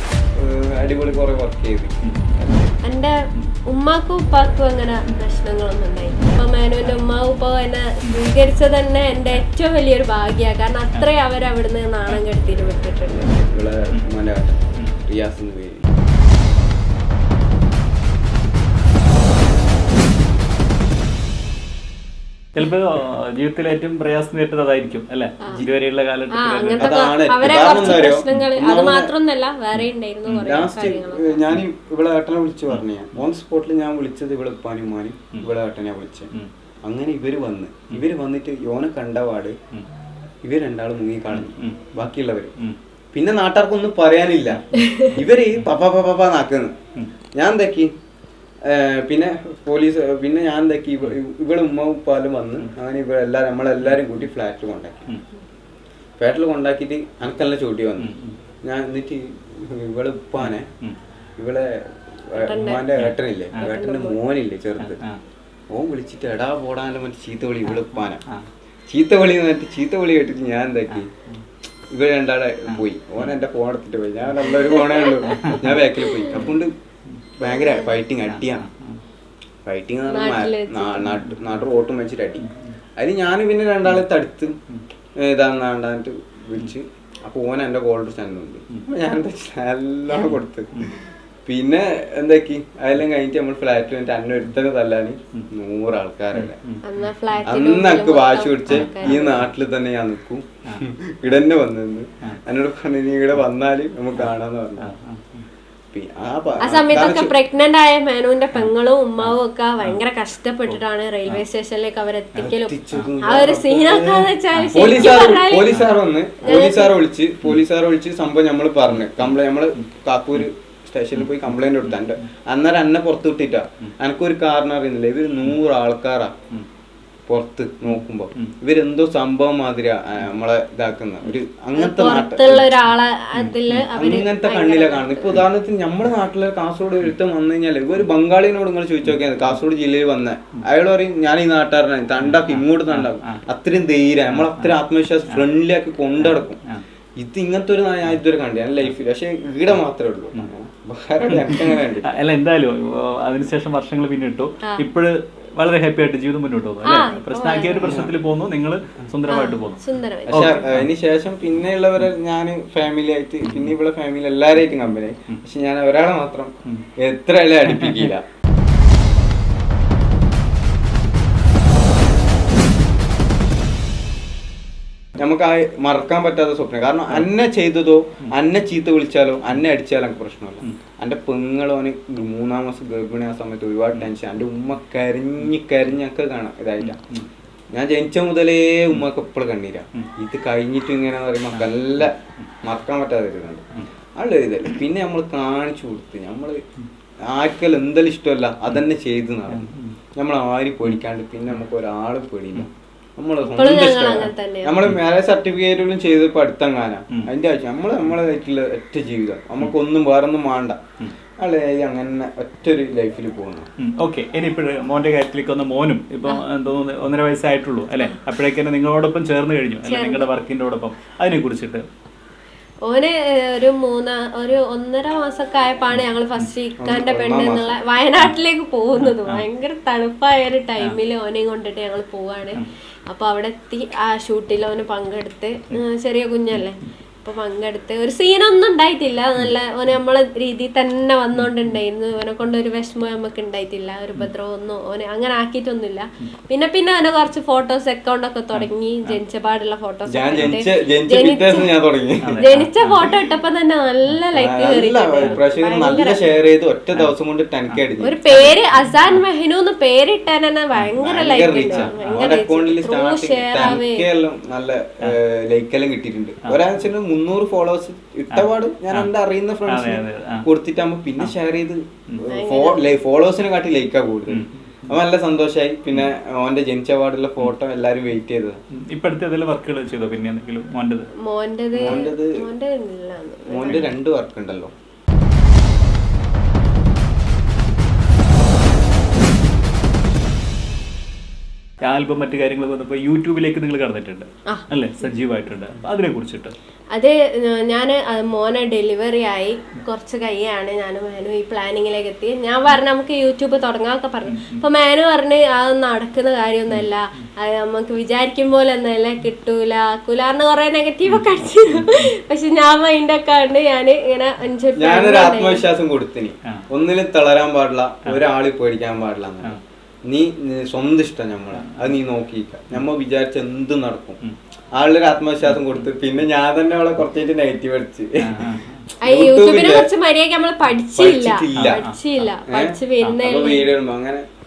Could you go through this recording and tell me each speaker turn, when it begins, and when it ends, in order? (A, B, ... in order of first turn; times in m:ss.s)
0:00.4-0:02.6 A
0:02.0-0:02.3 B
0:02.8-0:03.2 C
0:03.7-0:13.3 C
0:13.3-0:15.8 A
0:22.6-0:28.5 B
0:26.3-0:31.4 C
0:26.8-0:29.1 A
0:29.8-0:30.6 B
0:30.4-0:36.3 A
0:36.8-0:39.6 A
0:40.4-0:42.5 A
0:41.3-0:42.1 B
0:43.1-0:46.8 A
0:44.7-0:45.1 C
0:47.4-0:47.9 A
0:48.6-0:55.1 A
0:56.2-0:58.1 A
0:58.0-0:58.4 B
0:58.6-1:00.7 A
1:00.4-1:01.0 B
1:01.4-1:01.8 A
1:02.3-1:05.0 A
1:02.4-1:02.8 C
1:03.0-1:03.8 B
1:03.6-1:04.2 C
1:04.8-1:05.2 B
1:05.7-1:08.2 A
1:08.0-1:08.4 B
1:08.9-1:11.1 A
1:10.9-1:11.4 B
1:11.9-1:16.7 A
1:12.7-1:13.3 B
1:14.6-1:15.2 C
1:15.3-1:16.6 B
1:16.0-1:16.4 C
1:17.4-1:18.6 A
1:17.4-1:18.0 C
1:18.2-1:19.0 B
1:19.7-1:22.5 A
1:20.1-1:21.1 C
1:21.0-1:21.6 B
1:23.0-1:24.6 A
1:25.2-1:36.6 A
1:30.3-1:31.0 B
1:36.3-1:36.8 B
1:36.8-1:39.4 C
1:37.5-1:44.9 A
1:38.7-1:39.5 B
1:44.2-1:45.4 B
1:45.9-1:47.3 A
1:46.6-1:55.7 C
1:49.2-1:50.0 B
1:50.7-1:51.4 B
1:52.4-2:06.3 A
1:54.5-1:55.2 B
1:56.4-1:57.0 C
1:58.9-1:59.4 B
2:01.2-2:02.1 B
2:07.3-2:12.9 A
2:07.9-2:08.5 B
2:11.8-2:15.4 C
2:13.4-2:14.0 B
2:13.9-2:26.6 A
2:22.2-2:23.4 B
2:24.3-2:24.8 B
2:26.2-2:26.8 B
2:27.2-2:32.1 A
2:31.2-2:40.9 B
2:36.8-2:38.0 C
2:37.8-2:38.1 A
2:39.3-2:40.6 C
2:40.3-2:48.2 A
2:43.4-2:43.7 B
2:47.7-2:48.1 B
2:55.2-3:07.0 A
3:06.8-3:07.3 B
3:07.7-3:13.6 A
3:11.5-3:12.5 B
3:14.2-3:16.6 A
3:17.3-3:30.8 A
3:19.5-3:20.0 B
3:23.4-3:24.8 C
3:31.4-3:33.7 A
3:33.8-3:41.9 B
3:39.8-3:40.3 C
3:42.8-4:11.7 C
3:46.8-3:47.8 A
3:49.0-3:49.4 B
4:01.4-4:01.8 B
4:08.5-4:09.2 B
4:10.1-4:12.4 A
4:12.2-4:13.1 B
4:12.4-4:16.2 C
4:14.3-4:18.2 A
4:17.7-4:19.2 B
4:18.0-4:24.1 C
4:21.0-4:38.6 A
4:21.7-4:22.3 B
4:28.3-4:29.1 B
4:29.7-4:30.5 B
4:32.3-4:32.8 C
4:34.3-4:35.0 B
4:38.9-4:41.1 B
4:41.2-4:43.9 C
4:41.8-4:42.3 A
4:43.5-4:44.7 A
4:51.8-4:56.6 B
4:56.9-5:15.6 C
5:04.3-5:04.6 B
5:11.1-5:12.1 B
5:14.8-5:24.2 A
5:21.6-5:22.0 B
5:24.7-5:28.5 A
5:25.4-5:25.9 B
5:28.2-5:28.9 B
5:29.0-5:33.7 C
5:29.0-5:29.9 A
5:31.0-5:31.8 A
5:31.6-5:32.0 B
5:32.5-5:34.2 A